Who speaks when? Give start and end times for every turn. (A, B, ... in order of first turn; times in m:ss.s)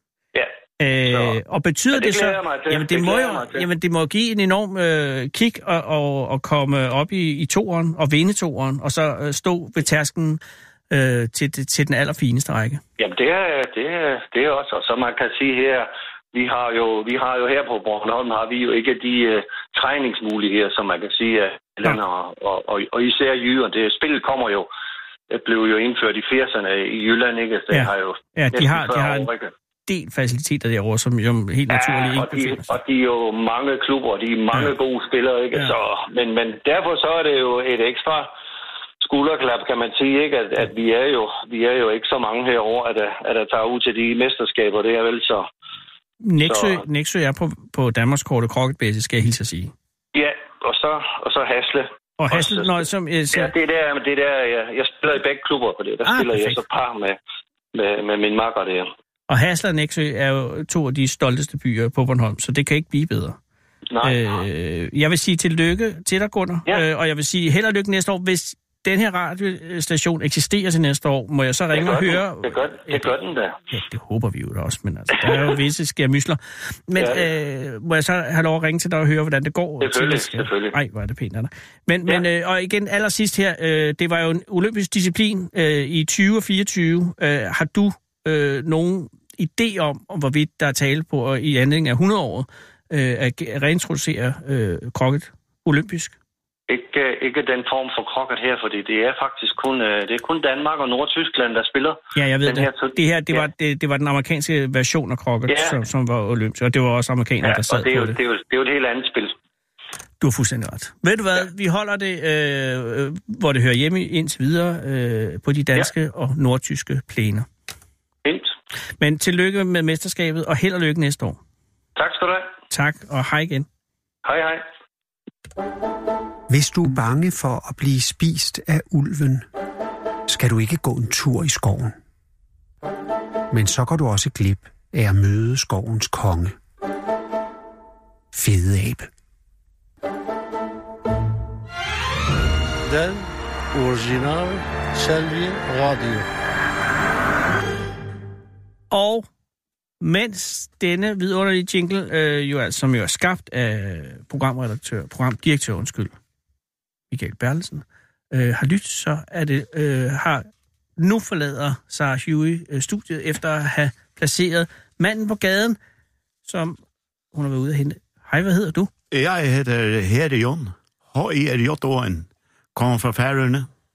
0:00.8-0:12.8 A
0:01.1-0:01.4 B
0:01.9-0:03.6 B
0:13.0-0:24.7 B
0:25.3-0:29.5 B
0:27.7-0:29.3 A
0:29.8-0:32.7 A
0:31.7-0:38.3 B
0:39.0-0:45.4 B
0:46.2-0:49.7 A
0:46.4-0:46.8 B
0:50.1-0:52.8 B
0:52.2-0:53.5 A
0:53.3-0:57.2 B
0:56.0-0:56.6 A
0:57.7-0:58.9 B
0:59.3-1:03.4 A
1:03.9-1:04.2 B
1:04.0-1:13.0 A
1:11.7-1:13.6 B
1:13.7-1:36.1 A
1:17.0-1:17.2 B
1:19.8-1:20.7 B
1:36.7-1:43.4 B
1:42.1-1:48.2 A
1:45.5-1:45.8 B
1:47.4-1:49.3 B
1:50.2-1:57.5 A
1:58.2-1:58.5 B
1:59.0-2:01.4 A
2:02.0-2:02.5 B
2:02.7-2:03.7 A
2:04.2-2:04.6 B
2:06.5-2:09.5 C
2:10.3-2:12.0 C
2:13.5-2:16.6 C
2:18.3-2:19.1 C
2:22.8-2:26.3 D
2:28.9-2:29.2 A
2:30.0-2:36.1 A
2:37.1-2:45.8 A
2:46.4-2:46.8 A
2:47.3-2:48.9 A
2:49.1-2:53.7 E